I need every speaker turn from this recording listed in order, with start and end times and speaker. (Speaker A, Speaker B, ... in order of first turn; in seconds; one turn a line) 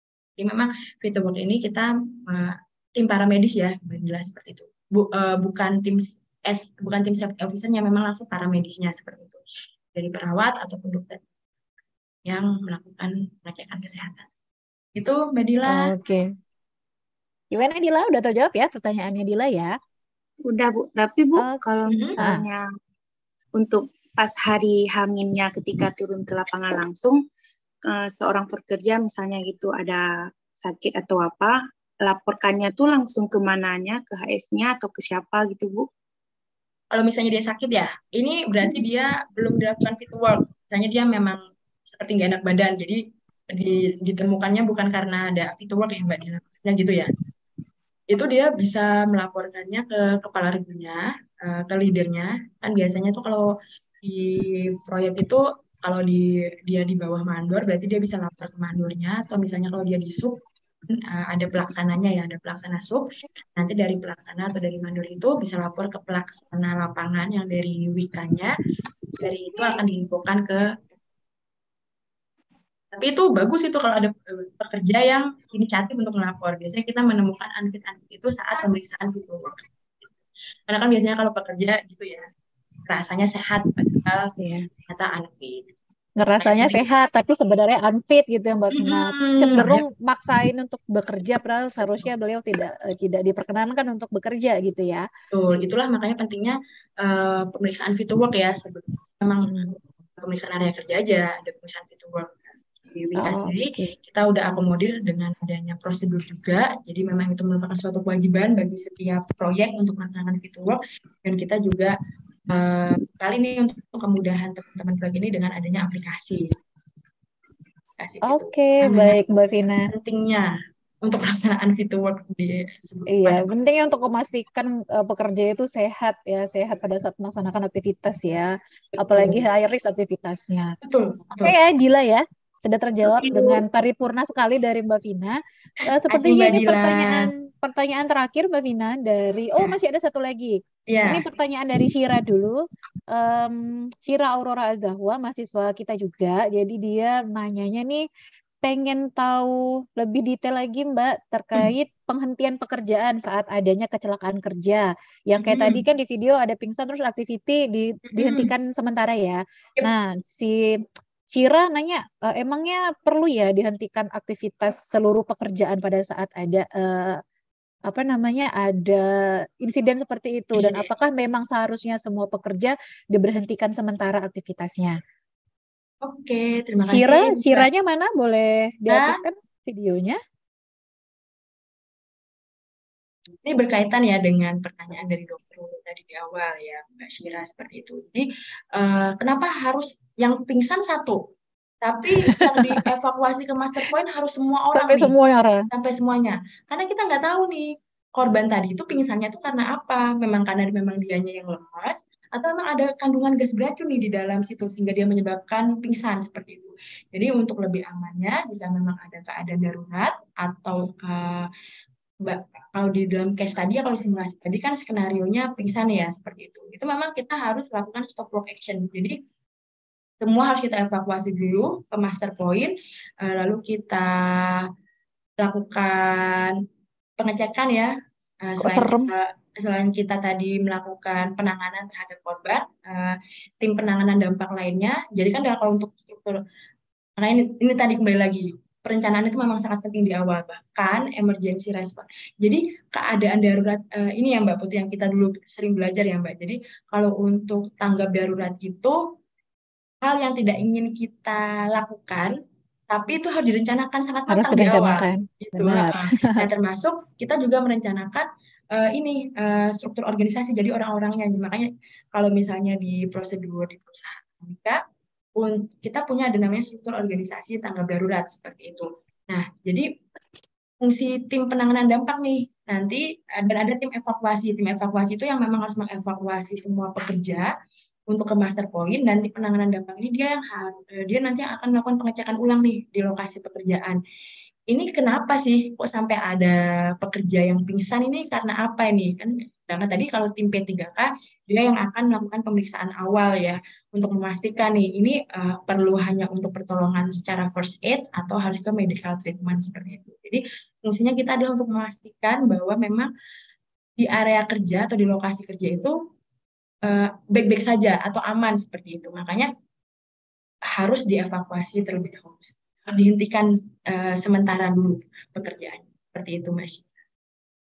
Speaker A: 0.4-9.4
Speaker A: 9.9-11.2
Speaker A: 12.3-14.3
Speaker A: 15.0-15.9
Speaker B: 15.7-16.3
Speaker B: 17.5-19.7
Speaker C: 20.5-22.6
Speaker A: 21.9-22.1
Speaker C: 23.6-27.2
Speaker C: 27.8-30.0
Speaker C: 30.6-35.9
Speaker A: 36.9-47.1
Speaker A: 48.1-53.5
Speaker A: 54.0-68.5
Speaker A: 69.2-70.7
Speaker A: 72.9-79.7
Speaker A: 80.7-82.3
Speaker A: 82.9-85.7
Speaker B: 86.2-95.0
Speaker A: 86.4-86.8
Speaker A: 88.8-89.8
Speaker A: 95.3-111.9
Speaker B: 99.5-99.7
Speaker B: 103.2-103.9
Speaker A: 112.5-116.6
Speaker A: 118.0-119.2
Speaker B: 118.2-119.9
Speaker A: 119.9-123.5
Speaker B: 123.1-130.8
Speaker A: 129.1-129.4
Speaker A: 130.8-131.6
Speaker B: 131.4-142.6
Speaker A: 133.1-133.6
Speaker A: 135.8-137.3
Speaker A: 140.9-141.2
Speaker B: 143.1-148.0
Speaker B: 148.6-160.8
Speaker A: 155.4-155.8
Speaker A: 158.1-158.5
Speaker B: 161.3-167.2
Speaker B: 167.9-175.0
Speaker A: 170.6-170.9
Speaker A: 176.0-177.7
Speaker B: 176.8-180.2
Speaker A: 178.9-179.2
Speaker A: 183.4-191.2
Speaker A: 191.8-195.1
Speaker B: 192.2-192.8
Speaker B: 194.7-195.7
Speaker A: 195.7-211.5
Speaker A: 212.2-219.2
Speaker A: 220.2-224.7
Speaker A: 225.4-226.6
Speaker A: 227.2-236.4
Speaker B: 228.6-229.1
Speaker A: 237.2-249.0
Speaker A: 250.0-252.3
Speaker A: 252.9-264.8
Speaker B: 254.3-256.4
Speaker A: 265.4-269.9
Speaker A: 270.8-277.5
Speaker A: 278.1-284.0
Speaker A: 284.7-303.1
Speaker A: 304.0-306.0
Speaker A: 306.8-309.5
Speaker A: 310.7-316.9